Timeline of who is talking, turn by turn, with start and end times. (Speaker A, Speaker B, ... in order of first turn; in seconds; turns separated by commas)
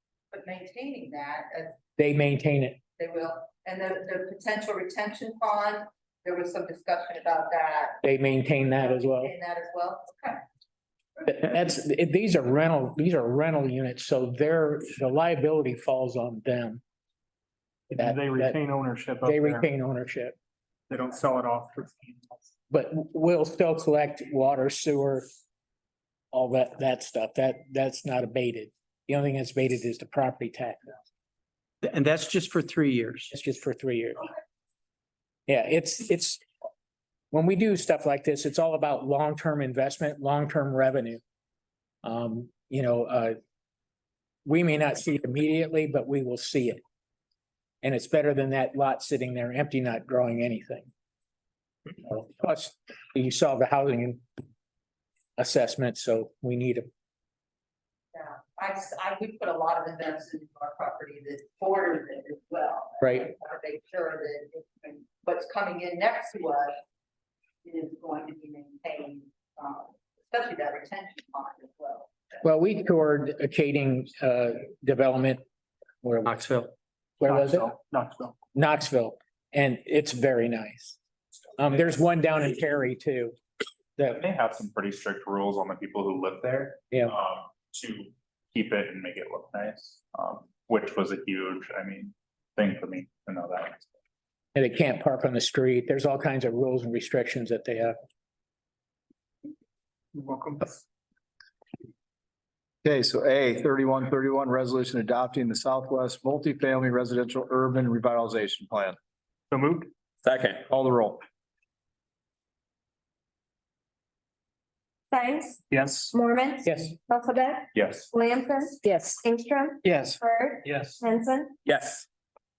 Speaker A: 0.3-1.8, Speaker B: 2.0-2.8, Speaker A: 3.0-10.4, Speaker B: 8.0-9.3, Speaker B: 11.3-16.8, Speaker C: 17.9-19.7, Speaker B: 18.0-18.6, Speaker B: 19.2-20.4, Speaker C: 20.9-22.3, Speaker B: 22.7-25.3, Speaker B: 26.3-30.9, Speaker D: 31.8-33.3, Speaker B: 33.3-34.3, Speaker B: 35.5-36.4, Speaker B: 37.3-41.2, Speaker B: 42.0-43.4, Speaker B: 44.5-46.8, Speaker B: 47.8-50.9, Speaker B: 52.0-54.2, Speaker B: 55.4-56.9, Speaker A: 58.1-66.8, Speaker A: 67.6-72.3, Speaker B: 72.4-75.4, Speaker B: 76.0-76.4, Speaker D: 76.2-76.7, Speaker B: 77.2-77.7, Speaker C: 77.2-78.4, Speaker B: 78.5-81.0, Speaker B: 81.6-83.3, Speaker E: 84.2-93.9, Speaker B: 94.5-98.0, Speaker C: 100.2-100.7, Speaker F: 102.8-109.0, Speaker C: 109.5-109.9, Speaker F: 110.7-111.2, Speaker G: 115.1-115.6, Speaker C: 115.7-116.1, Speaker G: 116.1-121.5, Speaker B: 116.7-116.9, Speaker E: 117.7-118.1, Speaker C: 120.7-121.0